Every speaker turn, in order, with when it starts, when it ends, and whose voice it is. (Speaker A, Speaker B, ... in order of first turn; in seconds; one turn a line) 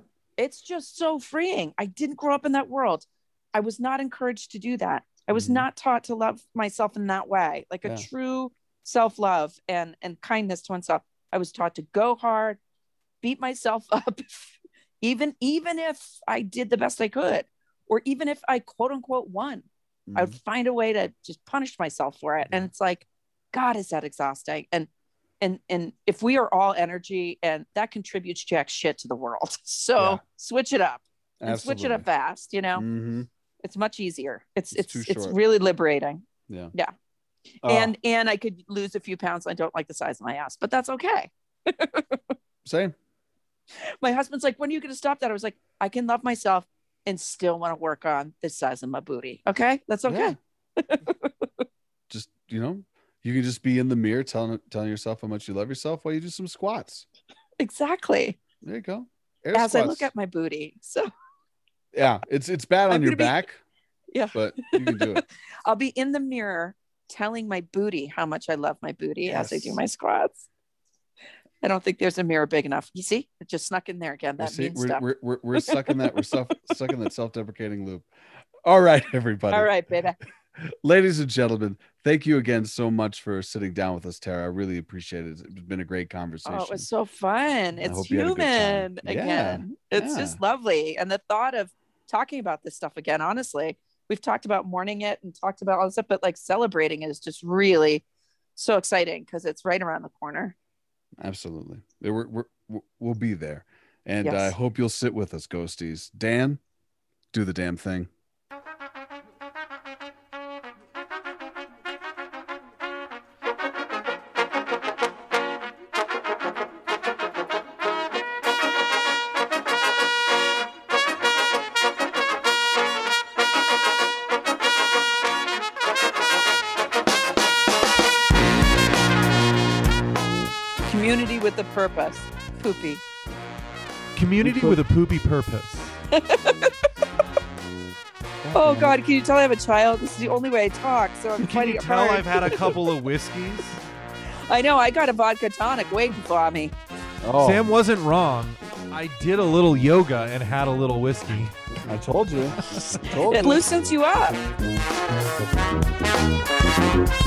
Speaker A: 0.4-12.6
Speaker B: 5.3-5.7
Speaker A: 13.2-24.9
Speaker B: 20.1-20.4
Speaker B: 22.4-22.7
Speaker A: 25.4-32.8
Speaker B: 30.0-30.2
Speaker B: 31.4-32.0
Speaker B: 32.7-33.3
Speaker A: 33.6-36.9
Speaker B: 34.7-35.4
Speaker A: 37.6-42.3
Speaker B: 37.6-37.9
Speaker B: 42.6-42.9
Speaker A: 44.0-51.6
Speaker B: 50.1-50.4
Speaker B: 52.1-57.0
Speaker A: 57.6-58.4
Speaker B: 58.6-60.1
Speaker A: 59.5-61.1
Speaker B: 61.9-63.6
Speaker A: 62.9-63.3
Speaker A: 64.1-70.5
Speaker B: 64.3-65.2
Speaker B: 69.3-69.8
Speaker A: 71.6-75.0
Speaker B: 74.4-78.1
Speaker A: 75.6-76.8
Speaker B: 78.6-79.7
Speaker A: 79.5-80.2
Speaker B: 80.6-86.9
Speaker A: 86.5-98.0
Speaker B: 87.8-90.4
Speaker A: 98.5-100.5
Speaker B: 101.2-106.6
Speaker A: 104.2-104.5
Speaker B: 107.3-108.1
Speaker A: 130.8-133.0
Speaker C: 134.1-136.0
Speaker B: 134.4-134.8
Speaker A: 136.1-137.0
Speaker B: 138.4-138.9
Speaker A: 138.5-142.7
Speaker C: 141.4-143.8
Speaker A: 144.5-146.7
Speaker B: 147.2-147.7
Speaker C: 147.4-151.5
Speaker B: 151.8-153.7
Speaker C: 152.7-153.0
Speaker A: 153.3-154.4